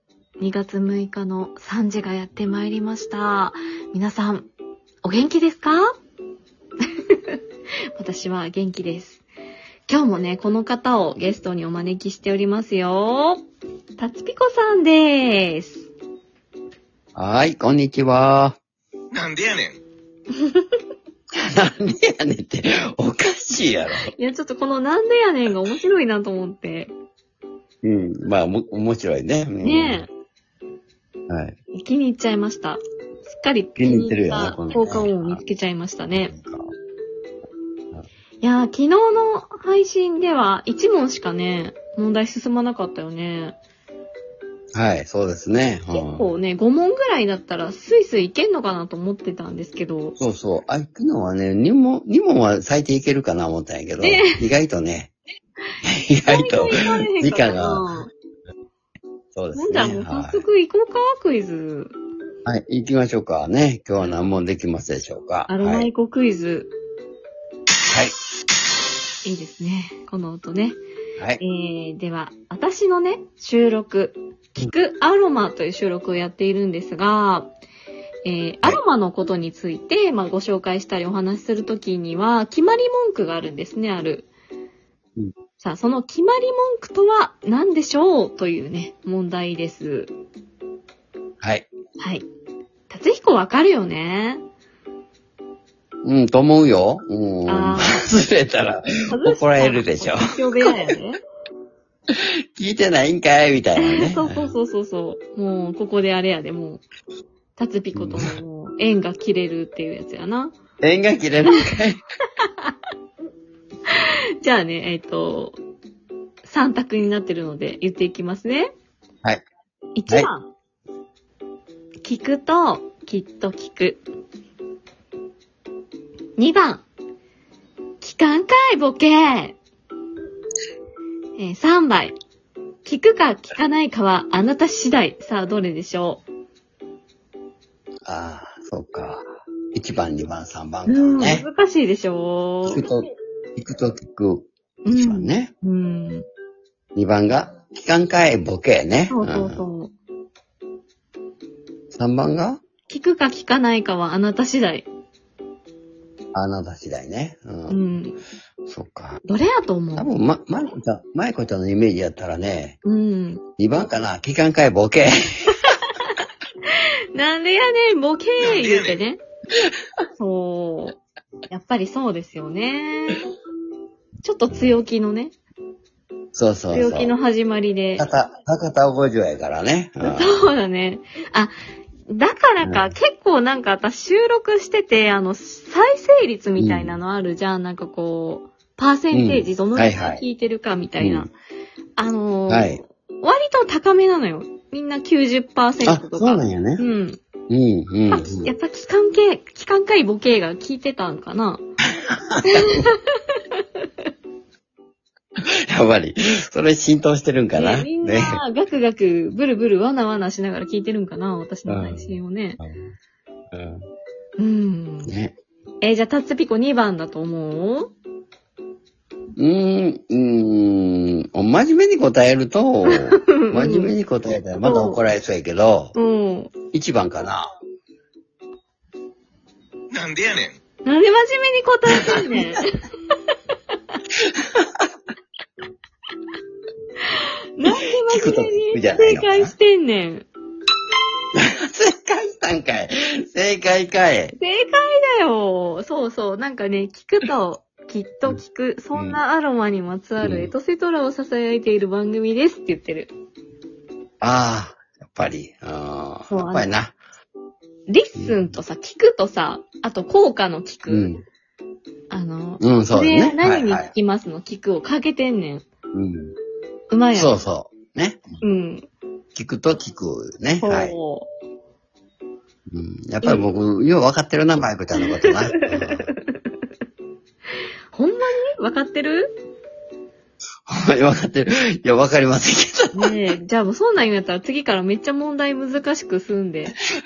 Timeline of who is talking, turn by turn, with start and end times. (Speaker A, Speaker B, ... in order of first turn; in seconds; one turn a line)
Speaker A: 0.4-4.5
Speaker A: 5.0-5.9
Speaker A: 7.1-7.4
Speaker A: 8.0-9.2
Speaker A: 9.9-13.4
Speaker A: 14.0-15.9
Speaker B: 17.1-18.6
Speaker C: 19.1-19.8
Speaker A: 20.4-20.7
Speaker B: 21.4-24.1
Speaker A: 24.1-26.9
Speaker B: 27.8-30.0
Speaker A: 29.6-30.1
Speaker B: 31.3-31.6
Speaker A: 31.7-36.3
Speaker B: 33.8-35.4
Speaker B: 36.1-36.7
Speaker A: 38.4-43.5
Speaker B: 44.7-46.3
Speaker A: 45.9-50.2
Speaker B: 50.2-55.1
Speaker A: 54.0-54.4
Speaker B: 55.8-57.9
Speaker A: 56.2-58.1
Speaker B: 59.3-60.4
Speaker A: 59.5-61.9
Speaker B: 62.5-65.9
Speaker A: 65.5-66.7
Speaker A: 69.2-70.8
Speaker A: 71.4-77.5
Speaker A: 78.2-84.3
Speaker A: 85.6-90.1
Speaker B: 91.4-91.7
Speaker A: 92.0-92.2
Speaker A: 92.9-94.4
Speaker B: 96.0-100.8
Speaker A: 97.5-98.0
Speaker A: 99.1-101.2
Speaker B: 102.5-104.5
Speaker A: 103.8-106.8
Speaker A: 107.5-110.5
Speaker B: 107.9-108.3
Speaker B: 110.8-112.0
Speaker A: 112.4-112.7
Speaker A: 113.9-115.6
Speaker A: 116.4-118.7
Speaker A: 119.9-120.5
Speaker A: 122.0-124.0
Speaker A: 126.4-126.8
Speaker A: 128.0-129.6
Speaker A: 131.4-132.2
Speaker A: 132.8-136.2
Speaker B: 138.0-139.2
Speaker B: 139.7-141.4
Speaker A: 140.8-142.8
Speaker B: 142.7-143.0
Speaker B: 143.6-145.5
Speaker A: 144.8-146.2
Speaker B: 146.9-149.6
Speaker A: 149.1-149.9
Speaker B: 151.9-152.6
Speaker A: 152.9-154.8
Speaker B: 156.3-157.8
Speaker A: 157.7-158.2
Speaker B: 158.7-159.2
Speaker A: 159.2-160.1
Speaker B: 159.9-162.8
Speaker A: 162.8-163.4
Speaker B: 163.6-165.7
Speaker A: 166.6-169.2
Speaker C: 168.4-169.0
Speaker A: 170.2-173.2
Speaker A: 174.2-175.3
Speaker B: 176.3-177.1
Speaker A: 176.7-178.1
Speaker B: 178.0-180.5
Speaker A: 180.0-181.5
Speaker A: 182.1-191.3
Speaker B: 182.6-182.9
Speaker B: 186.6-187.0
Speaker B: 189.1-190.2
Speaker B: 191.0-191.3
Speaker A: 192.0-197.2
Speaker B: 192.5-192.8
Speaker B: 195.8-196.8
Speaker B: 197.5-198.5
Speaker A: 198.1-201.6
Speaker B: 202.0-202.8
Speaker A: 202.5-203.6
Speaker B: 205.7-208.4
Speaker A: 207.5-212.6
Speaker B: 211.7-212.9
Speaker B: 213.5-213.8
Speaker A: 214.4-215.1
Speaker B: 215.1-215.3
Speaker A: 215.8-217.9
Speaker B: 219.4-225.9
Speaker A: 222.9-223.9
Speaker A: 224.6-225.0
Speaker A: 225.9-226.5
Speaker B: 226.7-227.5
Speaker C: 229.9-230.6
Speaker A: 230.8-232.7
Speaker B: 231.9-232.4
Speaker B: 234.2-234.8
Speaker A: 237.6-240.3
Speaker B: 237.7-239.5
Speaker B: 241.3-244.3
Speaker A: 244.3-253.1
Speaker B: 248.9-249.2
Speaker B: 250.2-250.5
Speaker B: 254.2-256.9
Speaker A: 256.3-256.7
Speaker A: 257.9-261.1
Speaker B: 258.2-258.5
Speaker B: 260.9-261.2
Speaker A: 262.1-265.6
Speaker B: 262.6-263.9
Speaker B: 265.9-266.3
Speaker A: 266.9-267.4
Speaker B: 267.1-268.3
Speaker A: 268.4-268.9
Speaker B: 269.3-270.9
Speaker A: 270.6-271.3
Speaker B: 272.7-276.1
Speaker A: 275.1-276.4
Speaker A: 277.9-279.4
Speaker B: 280.7-283.1
Speaker A: 282.9-286.8